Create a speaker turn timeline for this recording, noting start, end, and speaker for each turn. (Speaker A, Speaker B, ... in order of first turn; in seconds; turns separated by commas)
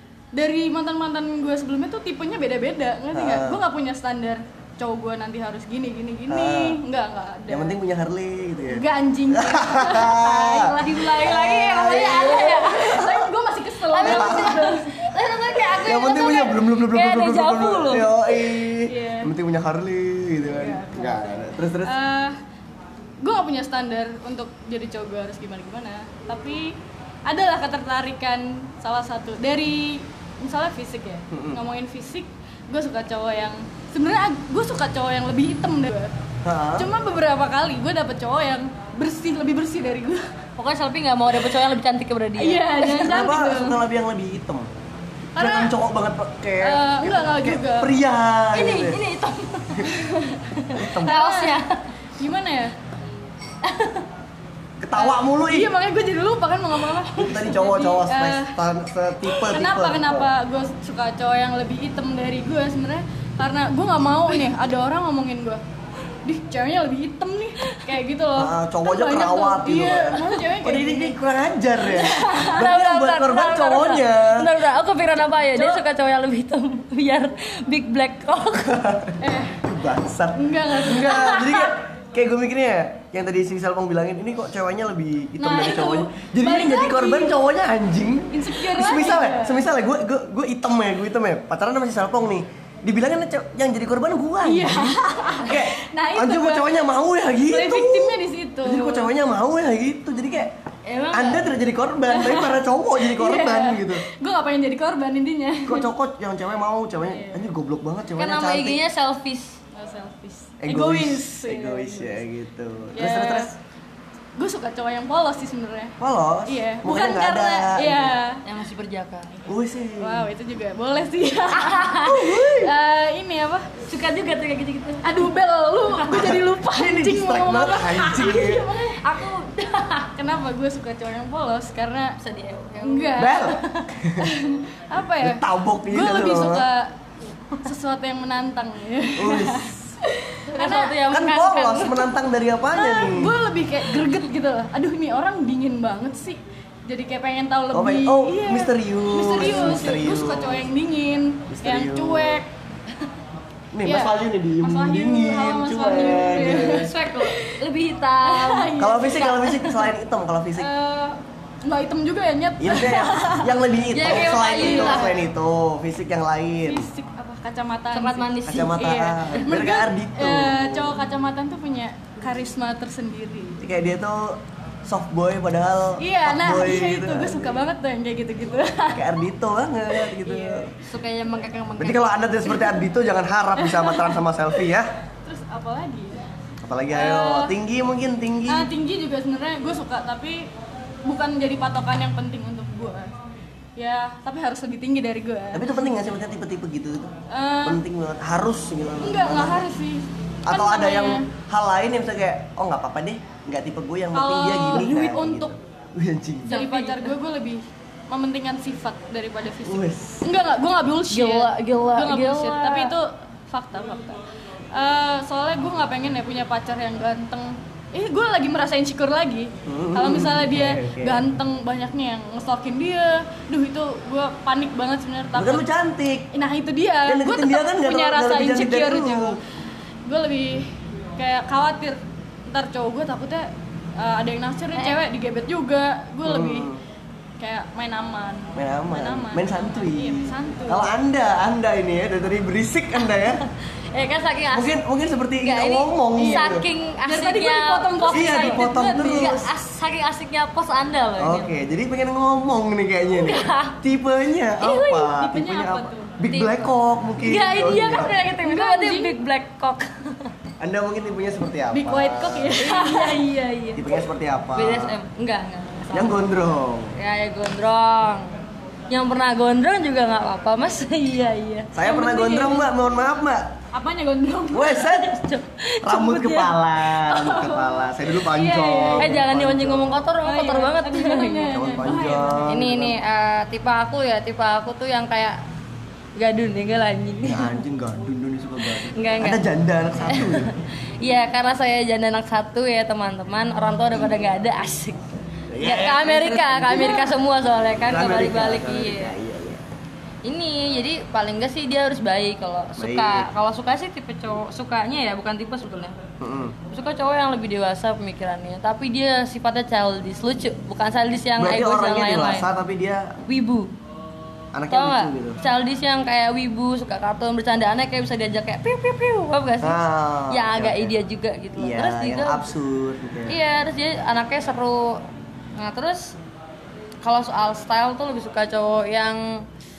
Speaker A: 0.3-7.8, Speaker B: 3.1-3.6, Speaker B: 6.3-6.8, Speaker B: 7.5-13.2, Speaker A: 8.7-15.0, Speaker C: 10.5-13.0, Speaker C: 13.9-18.2, Speaker B: 14.0-14.7, Speaker B: 15.7-22.0, Speaker A: 18.8-19.3, Speaker A: 20.4-22.4, Speaker A: 23.2-26.7, Speaker A: 27.2-36.1, Speaker B: 31.3-31.6, Speaker B: 36.4-36.9, Speaker A: 36.8-40.3, Speaker C: 40.6-43.1, Speaker A: 42.4-43.8, Speaker B: 43.0-44.7, Speaker A: 45.4-45.7, Speaker B: 45.4-49.0, Speaker A: 46.6-48.0, Speaker C: 48.5-50.0, Speaker A: 49.9-50.4, Speaker C: 50.5-51.9, Speaker B: 50.7-51.2, Speaker A: 51.0-51.6, Speaker A: 52.2-52.7, Speaker C: 53.6-54.0, Speaker B: 54.8-55.7, Speaker A: 55.0-58.5, Speaker B: 57.1-60.3, Speaker A: 59.3-65.6, Speaker A: 66.2-71.2, Speaker B: 68.3-74.5, Speaker A: 71.8-72.7, Speaker C: 72.4-78.8, Speaker A: 75.5-75.8, Speaker B: 78.6-100.5, Speaker A: 79.2-79.6, Speaker A: 80.3-81.7, Speaker A: 85.4-87.4, Speaker A: 88.3-89.6, Speaker A: 94.4-96.8, Speaker A: 97.5-99.1, Speaker C: 100.8-101.5, Speaker B: 101.1-104.0, Speaker A: 102.1-105.9, Speaker B: 105.6-108.8, Speaker A: 107.0-107.5, Speaker C: 108.2-109.6, Speaker A: 109.7-112.2, Speaker B: 110.6-113.5, Speaker A: 112.9-113.5, Speaker A: 114.4-118.4, Speaker B: 116.0-118.2, Speaker C: 118.4-119.4, Speaker B: 119.5-120.3, Speaker A: 120.0-123.7, Speaker C: 121.5-122.3, Speaker B: 122.0-122.7, Speaker C: 123.9-125.3, Speaker A: 125.0-129.4, Speaker C: 125.9-126.3, Speaker B: 126.1-128.7, Speaker C: 128.9-130.1, Speaker A: 130.1-132.2, Speaker C: 132.2-133.9, Speaker A: 132.8-133.6, Speaker B: 133.2-134.3, Speaker A: 134.2-136.9, Speaker B: 135.2-136.7, Speaker A: 137.6-141.0, Speaker B: 139.2-140.0, Speaker C: 140.5-142.1, Speaker B: 141.1-143.4, Speaker A: 142.7-152.5, Speaker B: 147.7-150.7, Speaker B: 151.5-152.4, Speaker B: 153.7-156.9, Speaker A: 153.8-157.5, Speaker C: 156.4-159.7, Speaker A: 158.2-159.6, Speaker B: 158.8-160.7, Speaker A: 160.6-165.2, Speaker B: 162.6-166.9, Speaker C: 163.9-165.2, Speaker A: 166.7-173.6, Speaker C: 167.9-168.9, Speaker B: 168.4-171.0, Speaker B: 173.6-177.7, Speaker A: 176.0-179.2, Speaker B: 178.9-180.7, Speaker A: 179.9-180.7, Speaker C: 180.8-182.0, Speaker B: 181.8-184.9, Speaker A: 183.6-184.2, Speaker A: 185.2-186.2, Speaker B: 186.6-188.7, Speaker A: 186.9-187.5, Speaker A: 188.5-190.5, Speaker A: 191.0-193.1, Speaker A: 193.8-195.8, Speaker B: 195.5-197.1, Speaker A: 197.3-197.8, Speaker B: 197.6-199.7, Speaker A: 199.0-201.2, Speaker B: 200.4-206.5, Speaker A: 204.1-205.5, Speaker C: 206.5-207.1, Speaker A: 206.5-214.2, Speaker B: 209.6-210.3, Speaker C: 211.1-212.9, Speaker A: 214.7-225.6, Speaker B: 219.7-221.2, Speaker B: 225.3-226.3, Speaker A: 226.3-229.4, Speaker B: 227.1-229.4, Speaker A: 230.0-236.7, Speaker B: 236.2-236.8, Speaker A: 237.4-240.9, Speaker B: 238.5-243.4, Speaker C: 243.9-244.8, Speaker B: 244.5-246.7, Speaker C: 245.4-251.5, Speaker A: 246.2-249.4, Speaker B: 248.1-249.5, Speaker B: 251.2-258.1, Speaker C: 253.1-253.8, Speaker C: 254.6-255.1, Speaker A: 255.1-256.2, Speaker C: 256.3-260.3, Speaker A: 258.4-259.2, Speaker B: 260.6-262.6, Speaker A: 261.7-263.3, Speaker C: 262.6-263.9, Speaker B: 263.8-265.0, Speaker C: 264.5-266.3, Speaker B: 265.9-266.9, Speaker C: 266.9-268.4, Speaker C: 268.9-271.7, Speaker B: 271.7-273.5, Speaker A: 271.8-272.7, Speaker A: 273.7-274.9, Speaker B: 274.5-275.1, Speaker C: 274.8-276.5, Speaker B: 275.8-280.0, Speaker A: 277.1-279.2, Speaker C: 279.0-281.6, Speaker A: 280.2-282.6, Speaker B: 281.5-283.0, Speaker C: 282.4-285.4, Speaker C: 286.2-287.6, Speaker B: 287.2-290.5, Speaker C: 288.8-289.4, Speaker C: 290.0-295.0, Speaker B: 295.5-297.1, Speaker C: 295.6-299.1, Speaker B: 297.8-299.6, Speaker C: 300.2-306.0, Speaker B: 302.8-303.3, Speaker B: 306.2-306.6, Speaker C: 306.7-312.5, Speaker B: 311.4-313.2, Speaker C: 313.2-313.7, Speaker B: 314.5-315.4, Speaker C: 314.7-322.5, Speaker B: 319.6-320.9, Speaker B: 321.6-323.4, Speaker C: 323.3-325.0, Speaker C: 325.6-326.1, Speaker C: 327.0-329.4